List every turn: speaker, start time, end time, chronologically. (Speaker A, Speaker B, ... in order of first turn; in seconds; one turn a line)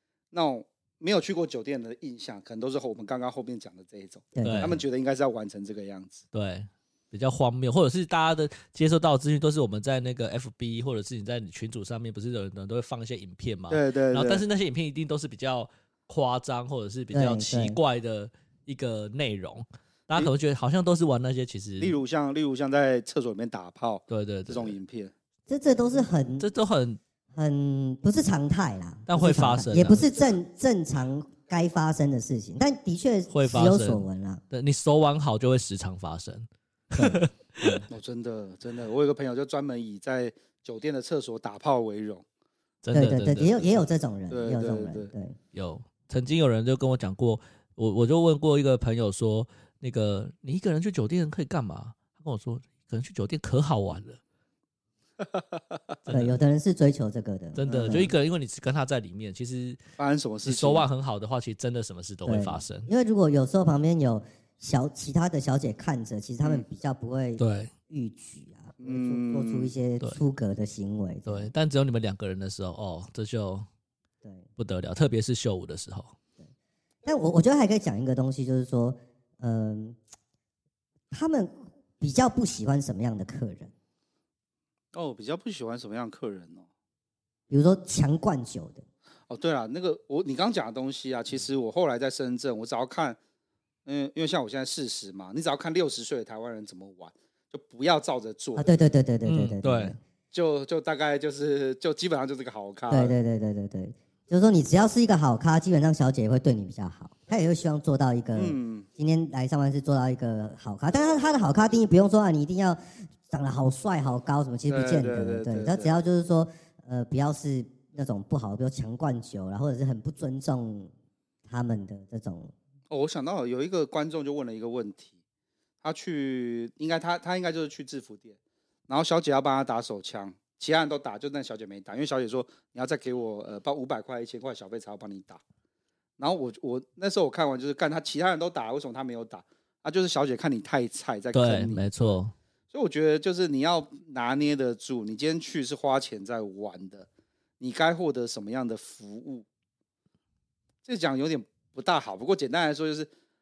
Speaker A: 0.3-6.2
Speaker B: 4.3-4.8
Speaker C: 4.4-4.8
Speaker C: 6.3-22.0
Speaker A: 13.7-14.4
Speaker B: 17.1-17.8
Speaker A: 21.8-25.1
Speaker C: 24.1-24.8
Speaker B: 25.5-26.5
Speaker C: 26.4-27.0
Speaker B: 27.4-34.4
Speaker C: 29.1-30.0
Speaker C: 33.3-37.8
Speaker B: 36.9-37.9
Speaker A: 37.9-42.2
Speaker C: 42.8-43.8
Speaker B: 42.9-45.4
Speaker A: 44.3-45.1
Speaker C: 45.5-54.2
Speaker C: 56.1-56.4
Speaker B: 56.1-58.1
Speaker C: 57.5-59.8
Speaker A: 57.7-58.1
Speaker A: 60.0-60.9
Speaker C: 60.4-62.9
Speaker B: 62.3-71.5
Speaker C: 67.4-67.7
Speaker A: 68.8-69.7
Speaker C: 71.3-73.7
Speaker C: 74.6-76.1
Speaker B: 77.0-80.0
Speaker B: 81.1-83.7
Speaker A: 84.9-86.7
Speaker B: 87.5-88.8
Speaker A: 89.3-93.2
Speaker A: 93.9-98.8
Speaker B: 98.6-100.0
Speaker C: 99.2-99.9
Speaker A: 100.3-103.2
Speaker B: 102.9-120.9
Speaker A: 108.4-108.9
Speaker A: 114.7-115.9
Speaker B: 121.5-122.5
Speaker A: 122.9-125.1
Speaker A: 125.8-128.4
Speaker A: 128.9-135.4
Speaker A: 136.2-142.2
Speaker C: 141.3-142.3
Speaker A: 142.7-147.1
Speaker A: 147.6-149.5
Speaker A: 150.9-153.1